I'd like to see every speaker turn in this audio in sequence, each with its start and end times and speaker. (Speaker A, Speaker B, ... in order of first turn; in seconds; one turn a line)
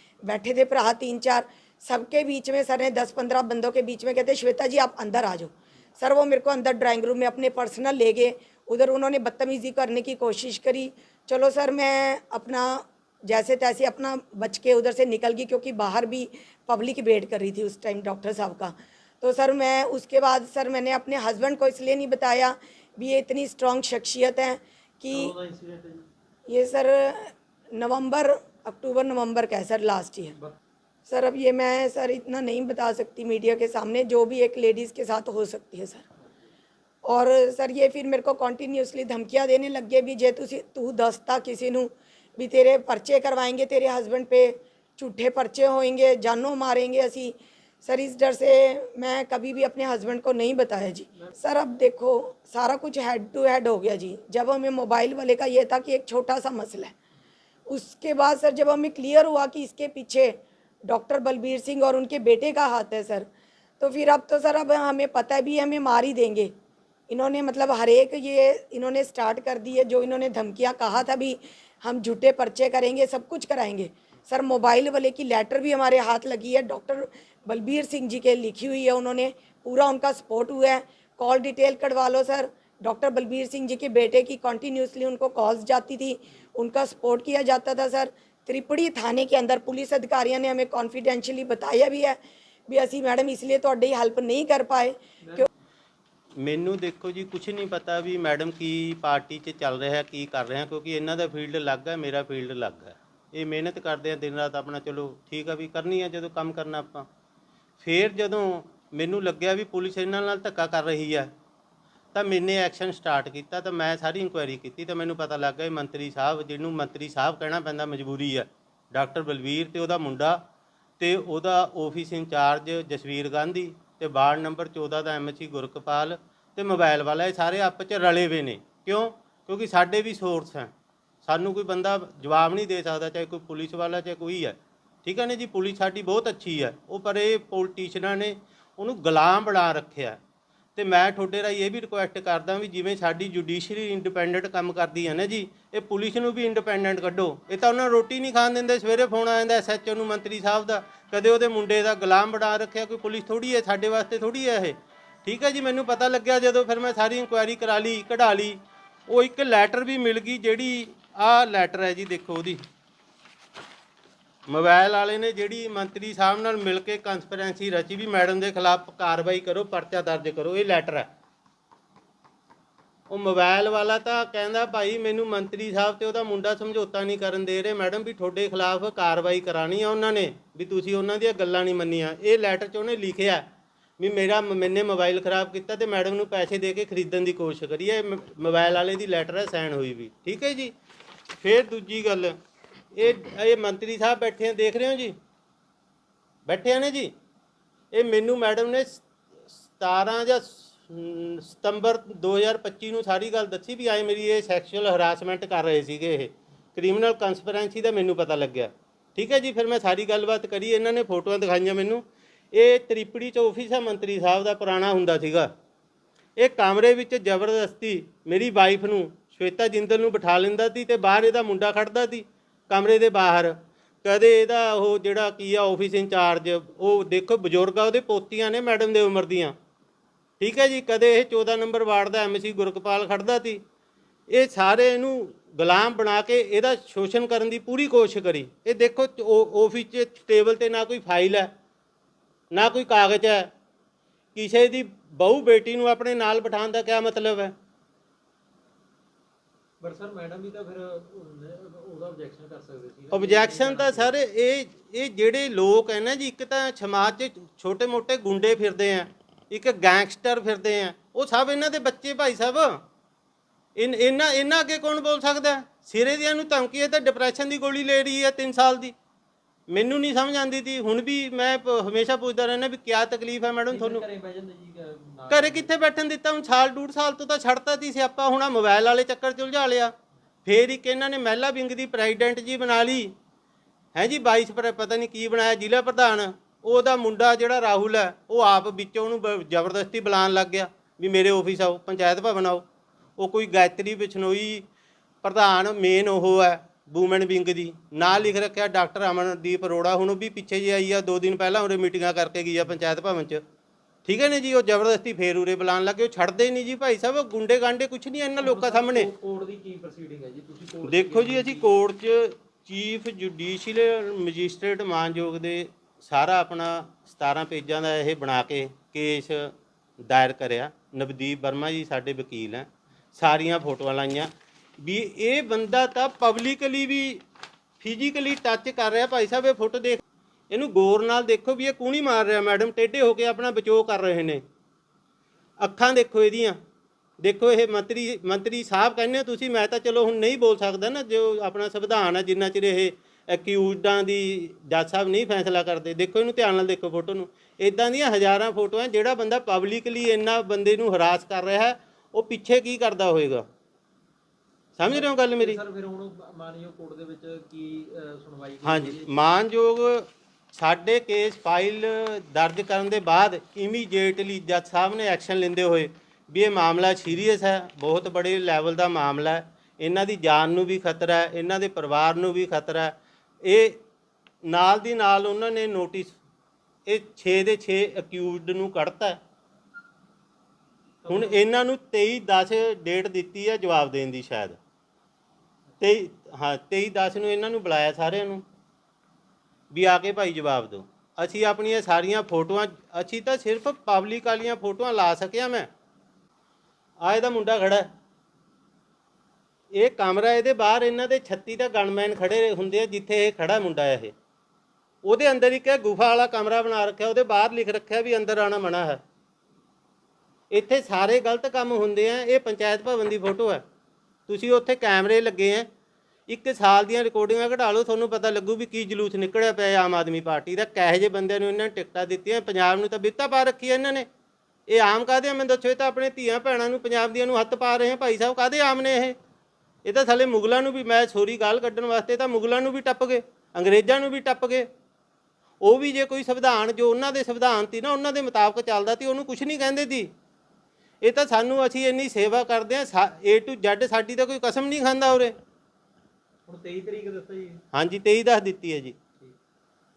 Speaker A: 0.2-25.3
Speaker B: 25.1-26.0
Speaker A: 26.5-30.4
Speaker A: 31.1-36.0
Speaker A: 37.0-56.9
Speaker A: 57.7-60.4
Speaker A: 60.9-63.3
Speaker A: 63.8-66.5
Speaker A: 67.1-95.5
Speaker C: 96.4-107.1
Speaker C: 107.8-111.3
Speaker C: 112.1-120.4
Speaker C: 121.0-130.7
Speaker C: 131.2-140.2
Speaker C: 140.8-162.6
Speaker C: 164.5-171.1
Speaker C: 173.1-183.5
Speaker C: 184.0-190.7
Speaker C: 191.4-192.3
Speaker C: 192.9-195.2
Speaker C: 196.5-197.1
Speaker C: 197.9-199.0
Speaker C: 199.7-215.5
Speaker C: 216.4-229.5
Speaker C: 230.4-233.6
Speaker C: 234.3-241.5
Speaker C: 242.5-243.5
Speaker C: 244.3-247.5
Speaker B: 249.8-254.1
Speaker C: 253.1-262.8
Speaker C: 263.8-268.9
Speaker C: 269.7-274.0
Speaker B: 273.7-275.7
Speaker C: 275.3-279.9
Speaker C: 280.4-283.1
Speaker C: 283.9-292.6
Speaker C: 293.2-294.6
Speaker C: 295.2-303.4
Speaker C: 304.1-309.1
Speaker B: 308.4-311.8
Speaker C: 310.8-327.2
Speaker C: 327.8-334.4
Speaker C: 335.6-336.6
Speaker C: 337.2-353.4
Speaker C: 354.8-355.6
Speaker B: 354.9-359.1
Speaker C: 358.6-373.8
Speaker C: 374.4-376.1
Speaker C: 376.9-379.2
Speaker B: 381.0-381.4
Speaker C: 381.1-384.6
Speaker C: 385.8-388.4
Speaker C: 389.7-395.7
Speaker C: 397.0-397.9
Speaker C: 399.7-404.1
Speaker C: 405.0-409.0
Speaker C: 410.5-413.6
Speaker C: 414.3-415.7
Speaker C: 416.3-424.1
Speaker C: 424.7-429.1
Speaker C: 429.9-434.7
Speaker C: 435.6-440.1
Speaker C: 441.0-445.4
Speaker B: 446.5-447.6
Speaker C: 447.7-448.9